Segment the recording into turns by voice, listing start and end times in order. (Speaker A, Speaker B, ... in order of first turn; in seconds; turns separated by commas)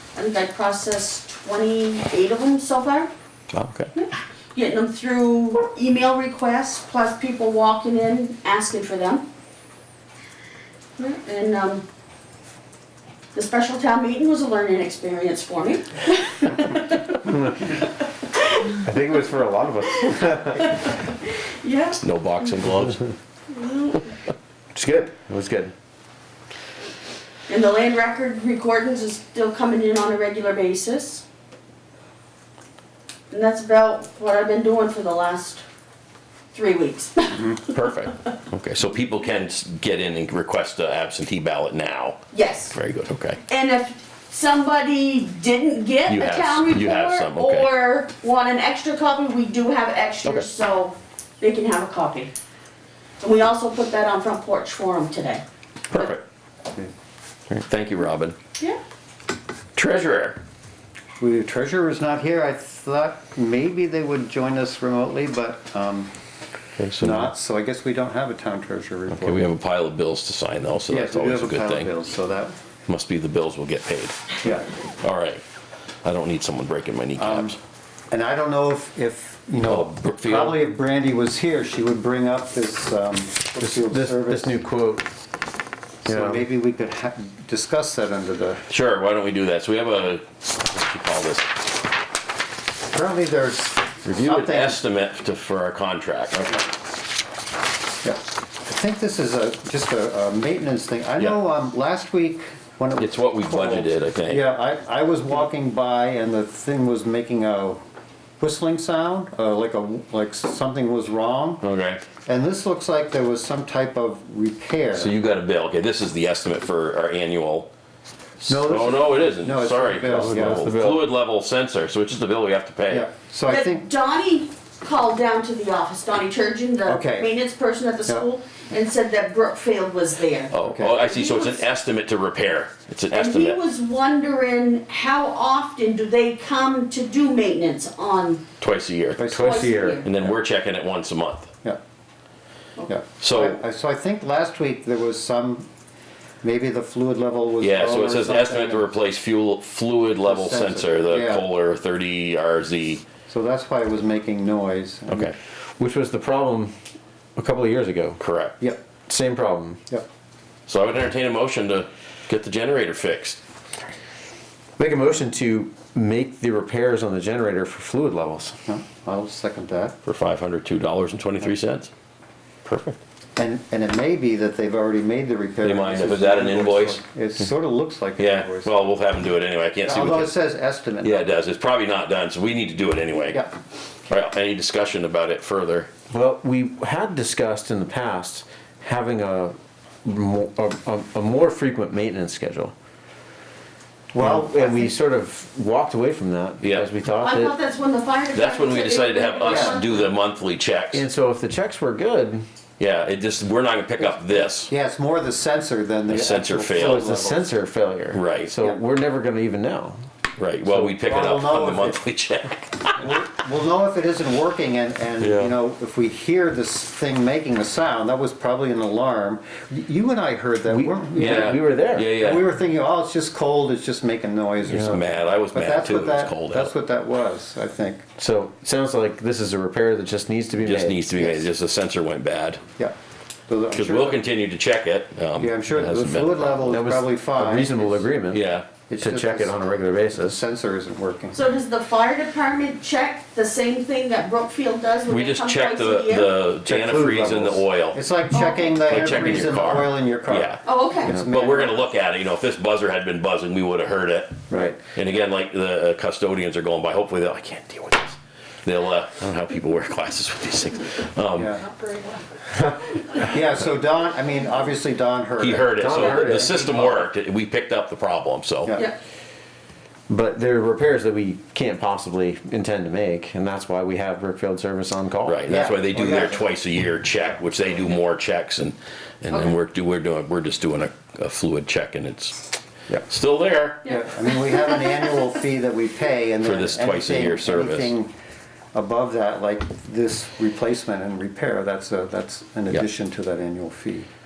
Speaker A: 0.1-3.1, Speaker B: 3.5-3.9, Speaker A: 4.0-9.2, Speaker A: 11.0-11.8, Speaker A: 13.3-17.9, Speaker A: 18.4-18.7, Speaker C: 18.7-20.8, Speaker A: 20.1-22.0, Speaker B: 22.0-23.0, Speaker A: 23.5-24.1, Speaker C: 24.7-25.7, Speaker A: 27.5-31.2, Speaker A: 33.3-35.6, Speaker A: 36.5-37.7, Speaker B: 37.6-43.4, Speaker A: 42.3-42.7, Speaker A: 43.5-52.3, Speaker B: 46.1-47.7, Speaker A: 53.2-55.4, Speaker B: 55.9-56.2, Speaker B: 57.5-58.4, Speaker B: 59.8-60.4, Speaker D: 61.2-66.1, Speaker B: 66.8-67.3, Speaker D: 67.0-69.5, Speaker B: 69.1-71.9, Speaker D: 70.9-72.5, Speaker B: 72.9-74.4, Speaker B: 75.0-75.4, Speaker B: 76.0-77.6, Speaker D: 77.2-77.6, Speaker D: 78.1-84.5, Speaker B: 79.6-80.6, Speaker C: 83.6-85.1, Speaker D: 86.0-88.6, Speaker C: 86.1-86.5, Speaker B: 88.7-91.5, Speaker D: 92.9-94.8, Speaker B: 94.0-96.6, Speaker D: 98.0-107.8, Speaker B: 103.0-104.5, Speaker D: 108.4-111.6, Speaker B: 111.6-112.0, Speaker D: 112.2-115.1, Speaker B: 114.9-117.7, Speaker B: 118.4-123.1, Speaker D: 118.5-120.7, Speaker C: 120.1-121.0, Speaker D: 122.9-123.9, Speaker A: 123.5-131.6, Speaker D: 126.8-127.3, Speaker B: 130.5-133.6, Speaker D: 130.6-131.0, Speaker A: 133.1-138.4, Speaker B: 138.6-139.2, Speaker D: 139.2-139.7, Speaker C: 139.3-140.0, Speaker A: 139.3-140.1, Speaker B: 140.0-141.5, Speaker D: 142.9-145.7, Speaker B: 143.2-143.6, Speaker D: 146.4-148.9, Speaker B: 147.6-153.1, Speaker D: 150.2-151.4, Speaker D: 153.3-155.3, Speaker B: 155.1-155.3, Speaker C: 155.8-156.7, Speaker C: 157.4-158.2, Speaker B: 158.2-158.6, Speaker C: 159.1-159.8, Speaker B: 160.7-163.4, Speaker C: 164.8-168.6, Speaker D: 168.7-170.0, Speaker B: 170.1-171.9, Speaker B: 172.7-173.0, Speaker D: 173.4-178.7, Speaker B: 175.6-177.5, Speaker B: 178.2-180.3, Speaker D: 179.8-181.2, Speaker B: 181.0-183.4, Speaker B: 184.1-185.9, Speaker C: 186.1-192.7, Speaker D: 194.1-195.0, Speaker C: 194.2-197.6, Speaker B: 196.6-196.9, Speaker A: 197.2-200.1, Speaker B: 198.3-201.0, Speaker D: 199.4-199.8, Speaker C: 200.9-202.4, Speaker B: 202.8-204.7, Speaker D: 204.4-207.5, Speaker B: 206.1-207.1, Speaker C: 206.8-210.1, Speaker B: 208.1-208.5, Speaker B: 210.4-213.1, Speaker C: 210.7-210.9, Speaker D: 211.0-212.0, Speaker D: 213.0-228.0, Speaker B: 215.2-215.5, Speaker C: 220.7-222.1, Speaker B: 221.2-222.5, Speaker C: 224.7-225.0, Speaker B: 224.7-226.7, Speaker C: 228.2-231.0, Speaker B: 230.6-232.6, Speaker D: 231.2-231.5, Speaker D: 233.5-234.2, Speaker B: 233.7-236.7, Speaker D: 235.4-238.1, Speaker C: 236.7-238.4, Speaker B: 238.3-238.7, Speaker D: 238.9-239.6, Speaker C: 239.0-240.4, Speaker D: 240.1-241.4, Speaker A: 241.3-246.4, Speaker B: 245.1-248.0, Speaker D: 246.7-251.8, Speaker C: 246.9-247.2, Speaker A: 248.3-249.2, Speaker B: 248.8-261.6, Speaker A: 250.6-251.1, Speaker D: 254.5-254.8, Speaker C: 254.5-254.8, Speaker D: 261.4-261.7, Speaker D: 263.1-266.7, Speaker B: 265.4-268.7, Speaker C: 265.8-266.9, Speaker D: 268.6-268.9, Speaker C: 270.1-275.4, Speaker B: 275.2-282.5, Speaker D: 275.5-276.5, Speaker B: 283.1-283.9, Speaker D: 283.9-288.1, Speaker A: 283.9-285.0, Speaker B: 286.4-287.9, Speaker D: 288.7-294.1